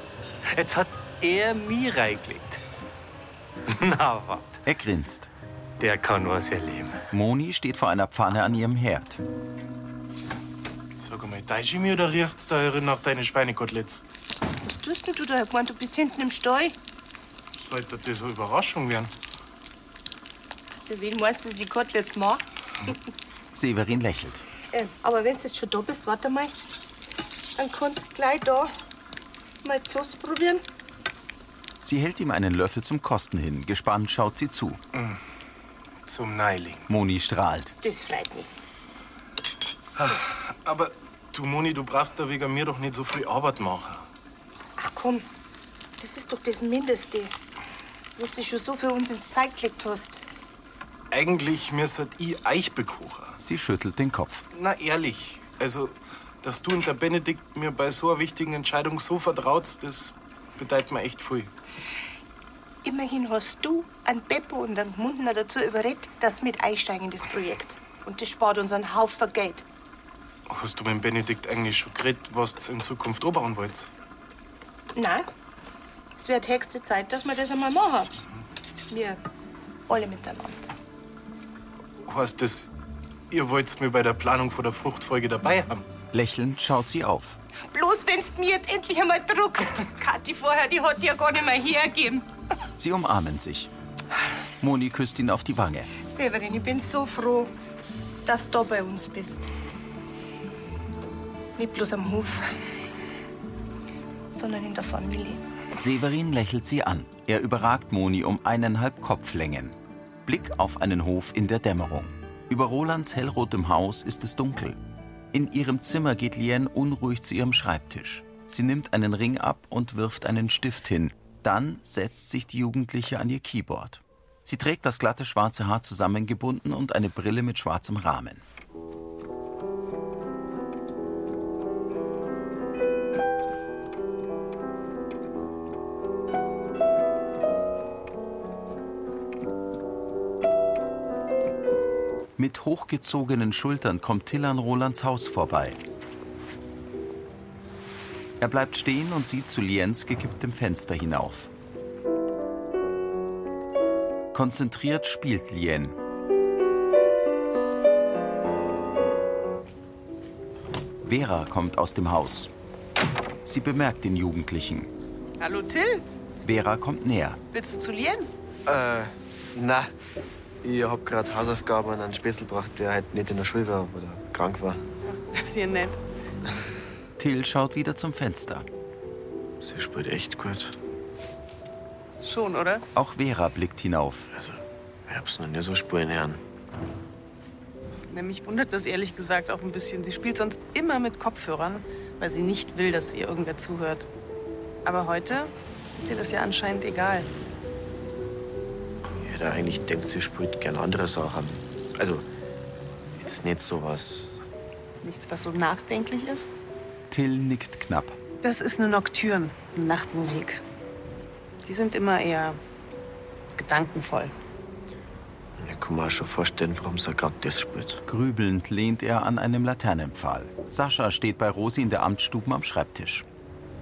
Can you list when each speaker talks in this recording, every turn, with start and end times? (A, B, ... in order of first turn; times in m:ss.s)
0:00.5-0:02.6 A
0:03.7-0:04.6 A
0:04.6-0:05.3 B
0:05.8-0:07.0 A
0:07.1-0:09.2 B
0:11.0-0:14.0 C
0:14.7-0:16.7 D
0:17.6-0:19.1 C
0:20.8-0:22.9 D
0:23.5-0:24.4 B
0:24.7-0:26.5 D
0:27.6-0:28.7 D
0:29.6-0:30.6 D
0:31.8-0:34.8 B
0:34.9-0:35.2 C
0:36.1-0:36.9 C
0:36.9-0:37.7 B
0:37.8-0:38.5 D
0:40.0-0:44.0 C
0:44.8-0:45.2 D
0:46.0-0:47.3 D
0:48.2-0:50.2 D
0:51.1-0:53.4 C
0:53.4-0:54.4 B
0:54.5-1:01.5 C
1:02.8-1:09.6 D
1:10.5-1:13.9 C
1:15.0-1:15.3 D
1:16.2-1:18.1 D
1:18.9-1:19.2 D
1:19.9-1:20.7 D
1:22.1-1:22.7 C
1:23.3-1:25.8 C
1:26.1-1:27.4 B
1:27.7-1:32.3 D
1:32.8-1:33.7 B
1:34.6-1:35.9 B
1:36.0-1:37.5 D
1:38.3-1:39.5 D
1:41.6-1:42.4 D
1:44.3-1:45.4 D
1:45.8-1:54.8 B
1:55.3-2:08.4 B
2:22.4-2:25.8 B
2:28.4-2:31.5 B
2:34.3-2:36.0 B
2:41.0-2:42.5 B
2:43.4-2:44.9 B
2:45.4-2:46.0 E
2:46.4-2:47.4 B
2:47.5-2:48.3 E
2:48.7-2:49.9 F
2:50.6-2:54.8 F
2:55.3-2:56.0 E
2:57.2-2:58.7 B
2:59.6-3:00.7 F
3:02.2-3:02.8 E
3:03.0-3:04.3 B
3:04.3-3:06.4 F
3:08.1-3:14.1 E
3:14.8-3:17.3 E
3:19.2-3:22.2 F
3:23.2-3:24.4 F
3:25.0-3:26.5 E
3:27.1-3:28.2 B
3:28.4-3:30.6 E
3:31.6-3:32.6 E
3:33.6-3:34.3 E
3:35.6-3:38.0 F
3:38.1-3:43.2 B